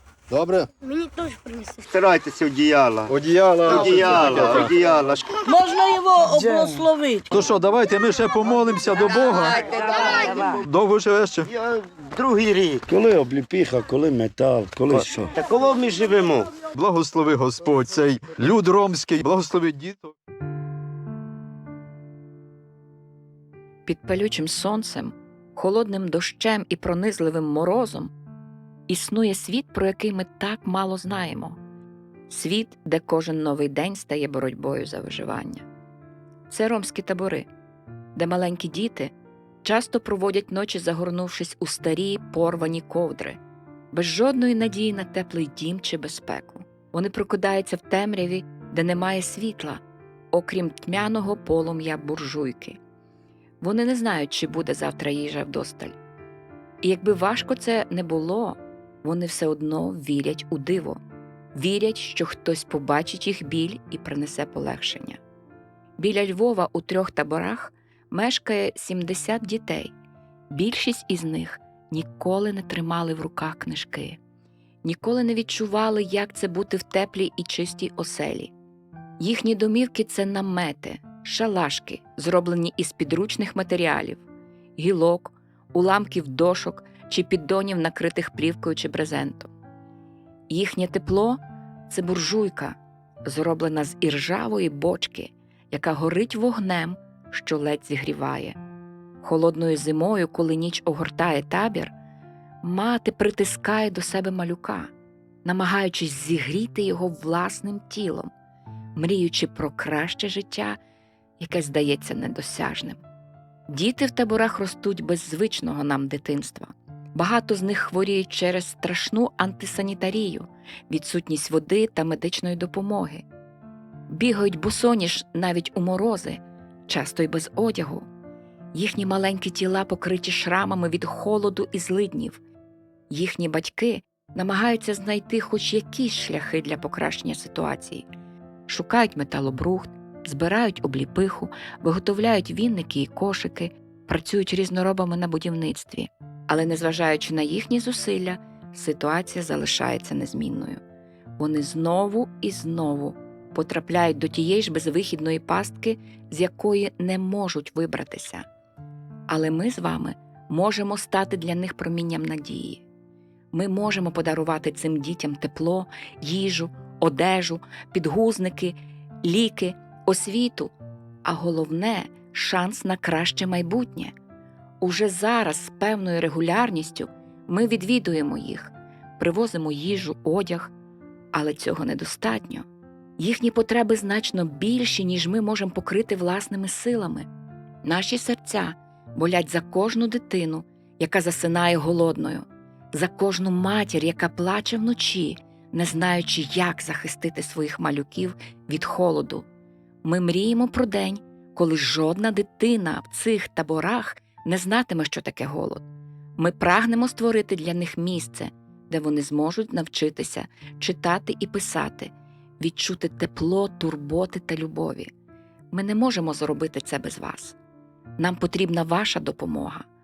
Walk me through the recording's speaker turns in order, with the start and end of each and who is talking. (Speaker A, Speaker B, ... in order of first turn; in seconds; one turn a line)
Speaker A: 0.3-0.7
Speaker B: 0.8-1.9
Speaker C: 1.9-3.1
Speaker A: 3.1-4.8
Speaker C: 3.6-5.4
Speaker B: 5.5-7.2
Speaker A: 7.3-9.8
Speaker C: 9.6-10.5
Speaker B: 9.7-10.6
Speaker A: 10.5-11.5
Speaker C: 11.5-12.8
Speaker D: 12.9-15.3
Speaker C: 15.3-16.5
Speaker A: 16.7-20.1
Speaker E: 23.9-28.1
Speaker E: 28.9-31.6
Speaker E: 32.3-35.6
Speaker E: 36.5-37.5
Speaker E: 38.1-39.1
Speaker E: 39.6-43.4
Speaker E: 43.9-49.8
Speaker E: 50.3-52.8
Speaker E: 53.6-56.0
Speaker E: 56.8-61.0
Speaker E: 61.5-65.2
Speaker E: 66.0-69.9
Speaker E: 70.5-74.2
Speaker E: 74.8-78.5
Speaker E: 79.2-84.2
Speaker E: 84.8-89.5
Speaker E: 90.5-98.6
Speaker E: 99.2-101.9
Speaker E: 102.6-104.9
Speaker E: 105.4-108.3
Speaker E: 109.0-110.8
Speaker E: 111.4-113.0
Speaker E: 113.7-123.2
Speaker E: 124.1-128.1
Speaker E: 128.7-132.4
Speaker E: 133.1-138.0
Speaker E: 138.7-150.8
Speaker E: 151.4-158.4
Speaker E: 159.3-162.8
Speaker E: 163.5-170.7
Speaker E: 171.2-174.1
Speaker E: 174.8-180.7
Speaker E: 181.3-182.7
Speaker E: 183.2-187.3
Speaker E: 187.8-199.4
Speaker E: 200.0-205.8
Speaker E: 206.4-215.1
Speaker E: 215.7-217.6
Speaker E: 218.2-219.8